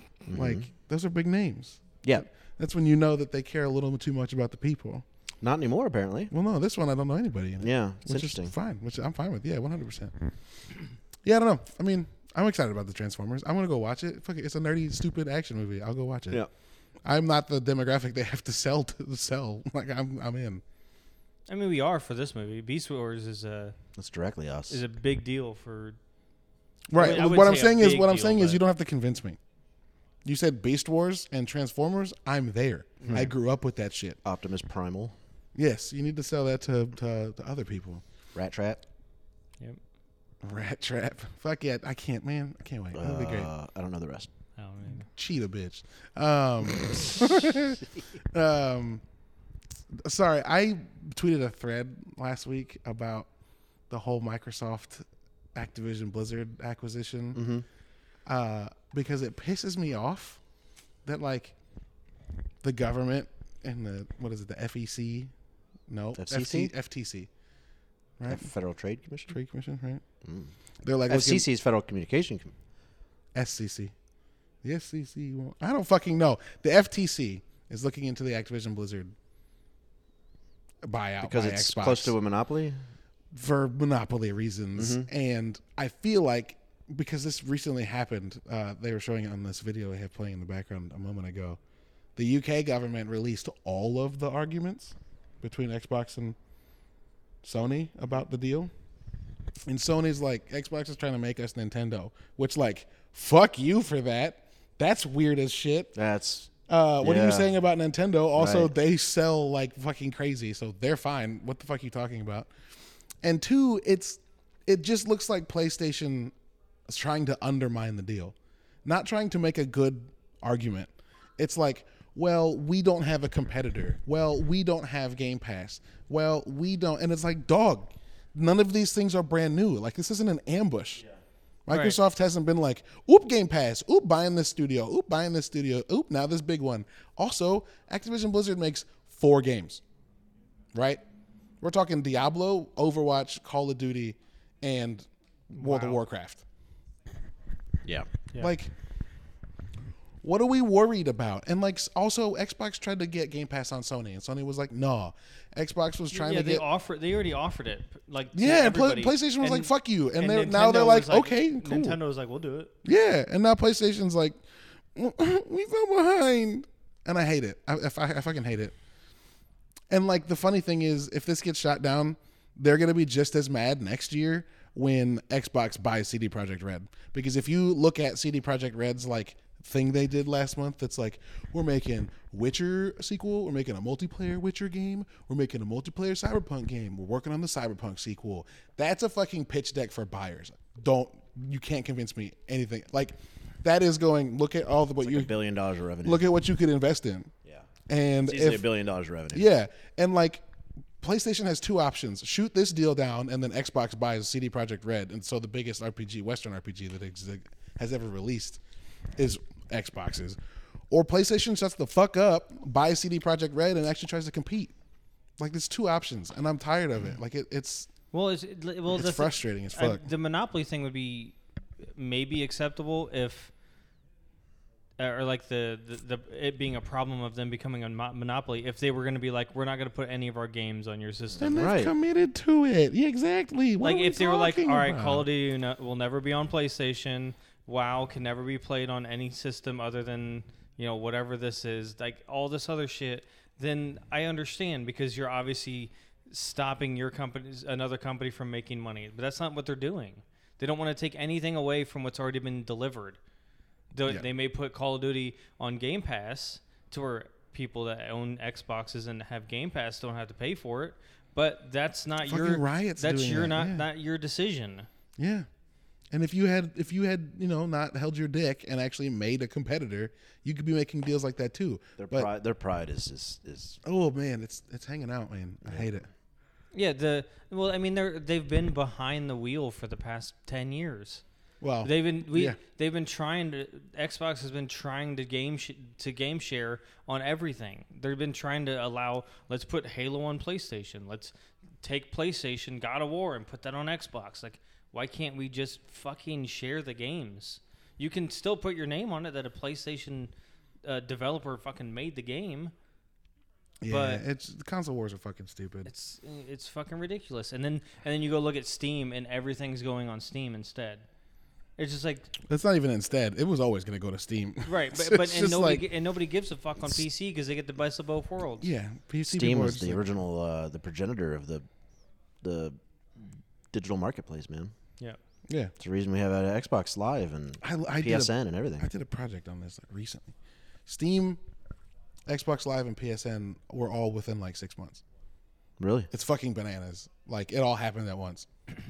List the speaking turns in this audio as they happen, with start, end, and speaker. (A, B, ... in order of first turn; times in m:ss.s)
0:00.3-0:00.7 A
0:00.3-0:05.0 B
0:05.4-0:06.3 A
0:06.3-0:10.3 B
0:07.6-0:08.5 A
0:11.2-0:16.4 B
0:17.0-0:20.6 B
0:21.5-0:23.8 C
0:24.0-0:24.8 A
0:24.7-0:26.0 C
0:26.9-0:29.4 B
0:26.9-0:28.6 C
0:30.2-0:34.2 B
0:33.0-0:33.3 A
0:34.2-0:35.2 A
0:35.6-0:38.0 B
0:38.4-0:38.8 A
0:40.4-0:43.5 B
0:42.9-0:44.3 A
0:44.6-0:45.1 C
0:45.0-0:49.0 B
0:49.9-0:53.3 B
0:53.9-0:57.4 B
0:57.3-0:57.7 A
0:58.3-1:00.4 B
1:01.0-1:01.6 B
1:02.6-1:05.3 B
1:05.9-1:07.3 B
1:06.2-1:06.7 A
1:08.2-1:08.5 B
1:08.2-1:09.4 A
1:09.3-1:10.0 B
1:10.2-1:10.5 A
1:10.8-1:11.5 B
1:11.1-1:12.5 A
1:13.3-1:13.9 B
1:14.6-1:19.1 B
1:20.8-1:22.1 B
1:21.2-1:22.8 A
1:23.3-1:31.6 B
1:24.8-1:25.1 A
1:32.2-1:36.4 B
1:37.4-1:38.7 B
1:39.6-1:45.9 B
1:46.0-1:46.5 A
1:46.7-1:52.5 B
1:47.0-1:47.5 A
1:48.4-1:48.7 A
1:53.2-1:56.3 B
1:56.9-2:11.0 B
2:11.7-2:19.8 B
2:11.7-2:12.0 C
2:20.7-2:21.0 B
2:21.6-2:26.4 B
2:25.6-2:26.0 C
2:28.4-2:28.7 B
2:30.2-2:36.6 B
2:36.1-2:42.7 C
2:38.3-2:42.0 B
2:42.8-2:44.4 B
2:45.0-2:48.8 B
2:49.9-3:15.3 B
3:15.0-3:16.2 A
3:16.0-3:17.3 B
3:17.9-3:18.7 B
3:18.2-3:19.5 A
3:19.3-3:20.4 B
3:21.0-3:28.6 B
3:29.2-3:30.4 B
3:30.9-3:34.7 B
3:35.4-3:37.9 B
3:38.1-3:41.4 C
3:38.9-3:40.1 B
3:42.0-3:43.5 C
3:45.0-3:51.6 C
3:51.4-3:51.9 A
3:51.4-3:55.3 B
3:53.8-4:13.2 C
4:13.9-4:24.9 C
4:22.2-4:23.9 B
4:25.2-4:25.5 B
4:26.1-4:32.3 B
4:32.0-4:33.8 A
4:33.8-4:36.1 B
4:35.6-4:35.9 A
4:36.7-4:41.2 C
4:41.6-4:42.6 B
4:41.8-5:00.3 C
5:00.8-5:02.7 C
5:03.8-5:05.9 B
5:03.9-5:04.2 C
5:05.9-5:11.0 C
5:11.8-5:12.3 C
5:12.5-5:15.9 B
5:14.7-5:18.7 C
5:18.6-5:20.1 B
5:19.3-5:21.6 A
5:22.4-5:22.8 A
5:23.7-5:24.7 A
5:25.5-5:25.7 B
5:25.8-5:28.9 A
5:27.6-5:30.3 B
5:30.9-5:31.4 B
5:32.3-5:35.0 B
5:35.8-5:36.1 A
5:36.1-5:38.5 B